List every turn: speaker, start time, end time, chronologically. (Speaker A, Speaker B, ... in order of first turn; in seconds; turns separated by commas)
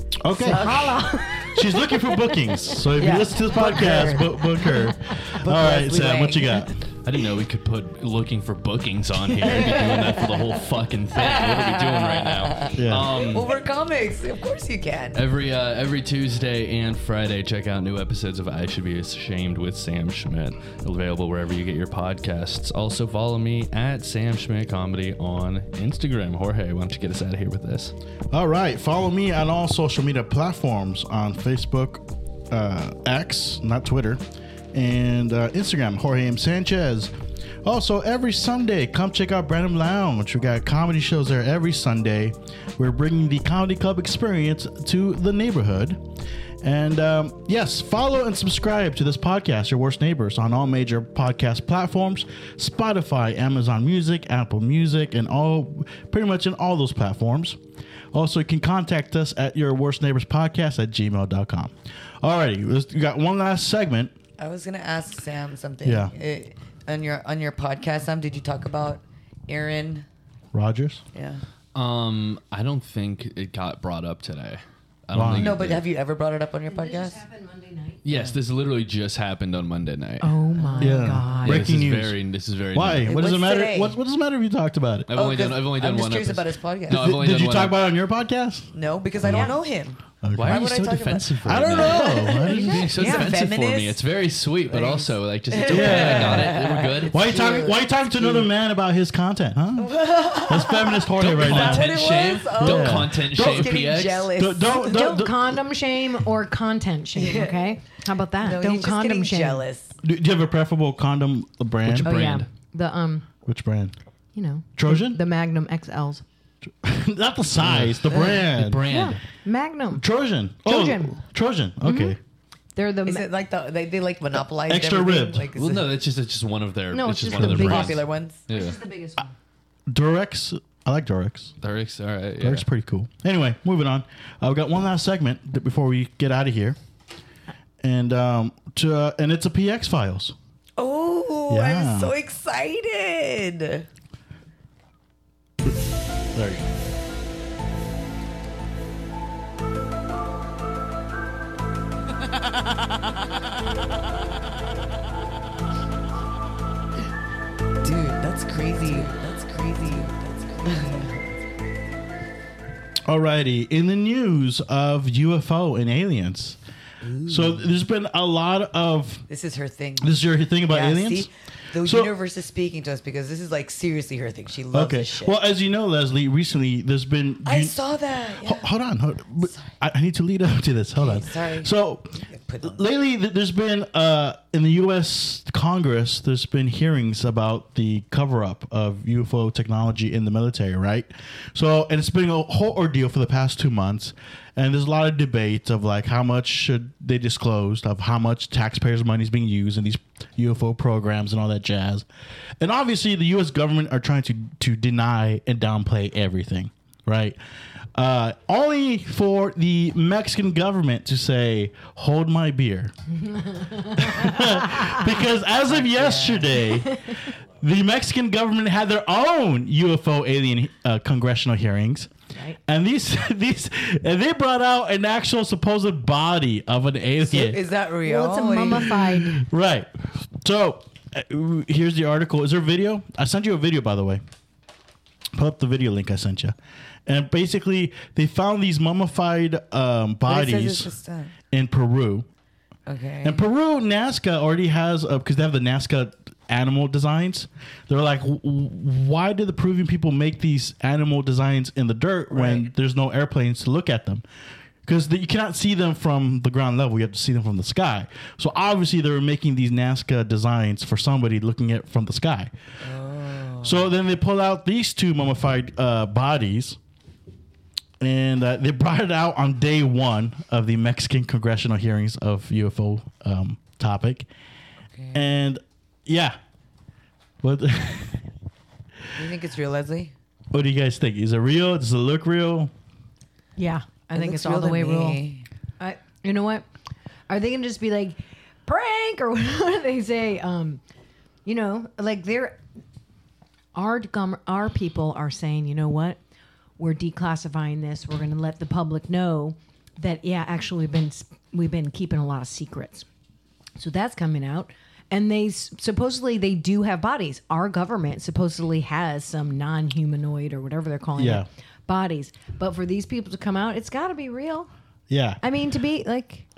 Speaker A: 0.2-6.7, Speaker B: 0.3-2.9, Speaker C: 0.4-1.1, Speaker C: 3.0-4.7, Speaker B: 4.6-5.3, Speaker C: 5.3-6.7, Speaker D: 7.0-13.5, Speaker C: 9.3-10.6, Speaker C: 11.1-15.2, Speaker A: 12.8-13.1, Speaker D: 15.1-27.9, Speaker A: 28.3-34.2, Speaker A: 34.7-37.1, Speaker A: 37.6-46.0, Speaker A: 46.6-57.6, Speaker A: 58.1-64.1, Speaker C: 64.4-70.1, Speaker A: 65.8-66.1, Speaker A: 70.5-71.0, Speaker C: 71.1-71.4, Speaker D: 71.7-75.8, Speaker A: 75.1-75.5, Speaker C: 75.4-77.2, Speaker B: 76.7-78.0, Speaker D: 78.0-80.3, Speaker C: 78.0-78.4, Speaker B: 80.2-81.7, Speaker C: 80.6-81.0, Speaker A: 80.8-82.2, Speaker D: 81.3-83.1, Speaker A: 82.7-85.1, Speaker C: 83.0-84.0, Speaker D: 85.1-87.8, Speaker C: 85.1-87.1, Speaker A: 86.9-89.5, Speaker C: 88.7-94.0, Speaker B: 89.3-89.5, Speaker A: 90.2-92.9, Speaker D: 90.3-97.4, Speaker B: 92.0-93.3, Speaker C: 94.7-98.5, Speaker A: 95.6-96.6, Speaker A: 97.1-105.6, Speaker C: 99.8-104.9, Speaker D: 101.2-104.4, Speaker B: 104.7-109.6, Speaker C: 107.1-107.7, Speaker C: 108.4-110.0, Speaker A: 110.0-112.1, Speaker B: 111.9-113.3, Speaker D: 111.9-112.5, Speaker A: 113.4-113.9, Speaker B: 114.3-116.2, Speaker A: 114.8-115.2, Speaker A: 116.8-118.8, Speaker D: 117.6-119.2, Speaker B: 118.9-120.0, Speaker A: 119.9-122.2, Speaker B: 120.6-121.2, Speaker B: 121.8-122.2, Speaker B: 122.8-123.3, Speaker C: 123.0-126.0, Speaker A: 124.3-125.5, Speaker D: 125.5-128.8, Speaker B: 126.9-129.3, Speaker C: 127.4-128.4, Speaker A: 129.9-131.5, Speaker D: 131.6-132.6, Speaker A: 132.4-136.8, Speaker A: 137.8-140.3, Speaker C: 140.8-143.8, Speaker A: 141.5-142.1, Speaker A: 146.3-146.7, Speaker C: 157.8-161.3, Speaker A: 163.1-166.6, Speaker C: 167.0-167.7, Speaker A: 167.2-169.2, Speaker C: 169.3-175.4, Speaker A: 170.0-171.3, Speaker A: 171.8-172.1, Speaker A: 174.7-177.8, Speaker C: 177.4-178.7, Speaker A: 178.4-202.1, Speaker C: 179.4-179.7, Speaker C: 181.0-182.9, Speaker A: 202.6-207.4, Speaker A: 207.9-212.9, Speaker B: 213.2-215.0, Speaker A: 213.9-222.1, Speaker C: 215.7-216.6, Speaker B: 216.8-217.1, Speaker A: 222.7-227.6, Speaker C: 227.2-229.2, Speaker B: 228.0-229.4, Speaker A: 229.3-229.9, Speaker A: 230.4-234.2, Speaker A: 235.3-236.6, Speaker A: 237.1-240.9, Speaker C: 240.3-241.3, Speaker A: 241.5-242.2, Speaker C: 242.8-243.4, Speaker A: 243.2-254.2, Speaker C: 252.3-252.7, Speaker A: 254.8-262.5, Speaker C: 262.8-263.9, Speaker A: 263.6-266.8, Speaker A: 268.0-274.3, Speaker C: 274.9-275.2, Speaker A: 275.1-276.4, Speaker A: 277.4-278.2, Speaker C: 279.1-280.1, Speaker A: 280.5-282.7, Speaker B: 283.6-285.2, Speaker C: 284.1-285.5, Speaker B: 285.8-286.6, Speaker B: 287.3-290.8, Speaker B: 291.4-292.6, Speaker B: 293.7-296.2, Speaker B: 296.8-303.1, Speaker B: 303.8-314.7, Speaker A: 311.1-311.4, Speaker A: 315.1-315.4, Speaker B: 315.4-316.5